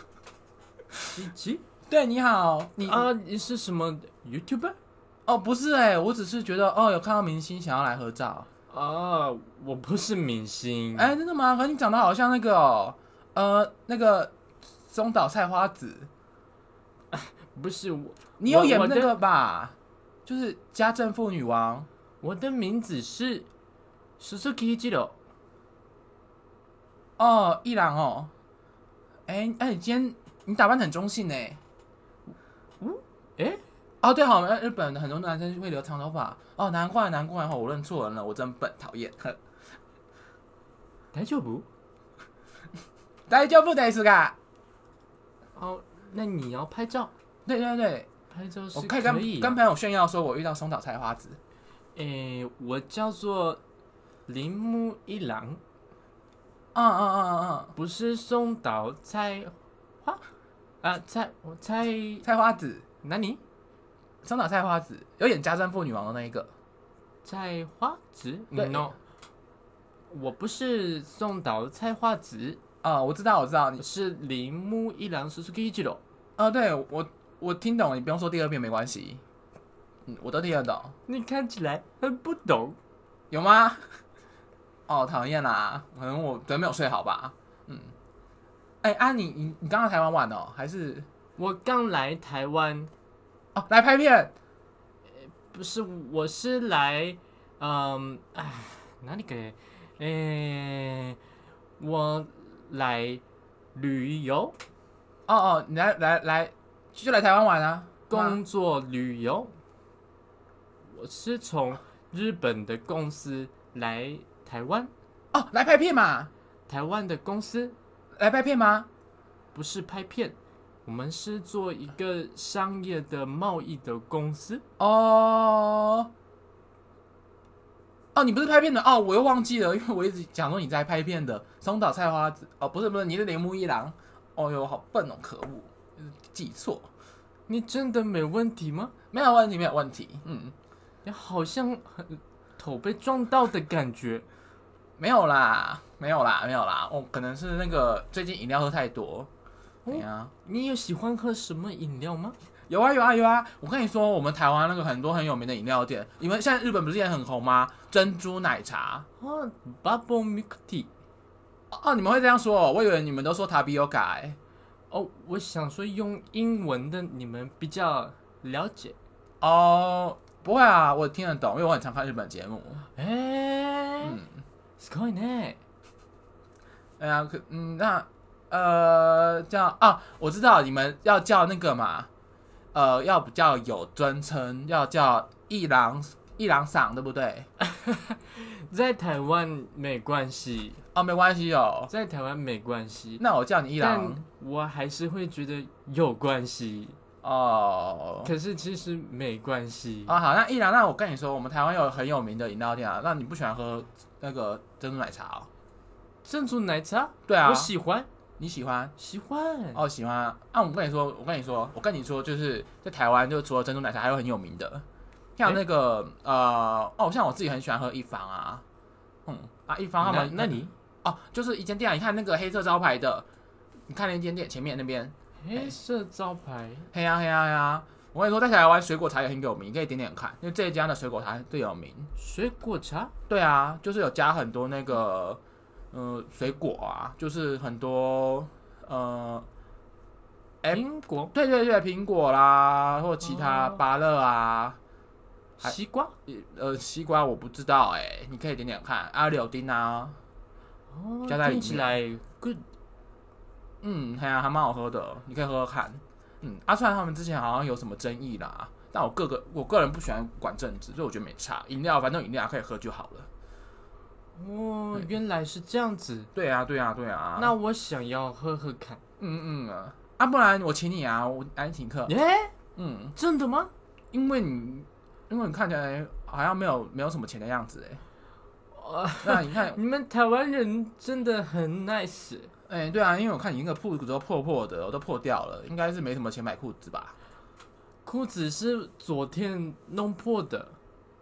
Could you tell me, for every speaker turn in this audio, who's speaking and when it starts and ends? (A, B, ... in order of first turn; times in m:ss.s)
0:01.1-0:01.6 A
0:01.9-0:03.1 B
0:02.8-0:04.8 A
0:05.2-0:08.5 B
0:08.7-0:11.1 A
0:11.0-0:14.3 B
0:14.9-0:16.1 B
0:17.1-0:19.1 A
0:18.4-0:19.7 B
0:20.2-0:21.9 B
0:22.2-0:23.5 A
0:24.2-0:25.2 A
0:27.2-0:28.3 B
0:29.3-0:31.6 B
0:32.8-0:33.6 A
0:34.0-0:39.4 B
0:41.1-0:41.6 A
0:43.3-0:44.4 B
0:45.6-0:47.1 A
0:47.4-0:48.1 B
0:48.3-0:49.6 A
0:48.7-0:51.4 B
0:52.0-0:53.6 A
0:54.3-0:55.6 A
0:56.7-0:57.7 B
0:57.7-1:00.2 A
1:00.8-1:02.2 A
1:02.2-1:02.8 B
1:03.0-1:03.4 A
1:04.2-1:06.5 B
1:07.2-1:09.0 A
1:08.5-1:08.9 B
1:10.1-1:12.6 A
1:12.8-1:13.8 B
1:13.8-1:16.0 A
1:16.4-1:19.2 B
1:20.0-1:20.9 B
1:21.1-1:22.8 A
1:23.3-1:23.8 B
1:24.9-1:27.9 B
1:28.8-1:31.1 B
1:31.4-1:32.9 A
1:33.5-1:34.3 B
1:35.2-1:41.2 A
1:41.8-1:43.2 A
1:43.7-1:44.6 A
1:45.3-1:48.4 B
1:48.1-1:49.5 A
1:50.9-1:54.9 A
1:55.3-1:56.3 B
1:56.7-1:57.7 A
1:58.2-1:58.9 B
1:59.5-2:04.6 A
2:04.8-2:06.1 B
2:08.1-2:16.9 B
2:17.5-2:18.9 A
2:19.1-2:20.5 B
2:21.0-2:24.2 A
2:25.0-2:29.3 B
2:29.8-2:32.4 A
2:29.9-2:30.3 B
2:32.7-2:39.0 B
2:39.2-2:40.9 A
2:41.7-2:44.4 B
2:44.9-2:49.0 A
2:49.4-2:52.8 B
2:53.0-2:54.2 A
2:54.0-2:54.4 B
2:54.8-2:55.6 A
2:57.0-3:02.1 B
3:02.7-3:07.5 B
3:07.6-3:10.8 A
3:10.9-3:11.9 B
3:11.9-3:13.2 A
3:13.2-3:14.2 B
3:13.8-3:17.0 A
3:17.2-3:18.3 B
3:18.2-3:20.2 A
3:20.1-3:25.5 B
3:26.2-3:28.1 A
3:27.3-3:27.7 B
3:28.4-3:28.9 B
3:29.0-3:29.8 A
3:29.7-3:34.8 B
3:35.4-3:38.6 B
3:39.2-3:43.3 B
3:40.0-3:40.7 A
3:43.9-3:45.8 B
3:45.4-3:46.9 A
3:46.9-3:52.1 B
3:52.2-3:53.1 A
3:53.3-3:55.4 B
3:55.9-3:59.5 B
4:00.6-4:04.8 B
4:00.7-4:01.3 A
4:03.2-4:03.8 A
4:05.6-4:06.1 A
4:06.3-4:10.2 B
4:10.9-4:12.6 A
4:11.3-4:11.9 B
4:13.8-4:23.3 B
4:24.4-4:26.3 A
4:26.3-4:27.6 B
4:27.4-4:29.0 A
4:29.2-4:32.1 B
4:32.1-4:32.5 A
4:32.8-4:33.2 B
4:33.2-4:33.7 A
4:34.1-4:38.0 B
4:38.7-4:42.5 A
4:39.2-4:39.8 B
4:42.7-4:47.1 B
4:48.0-4:50.8 A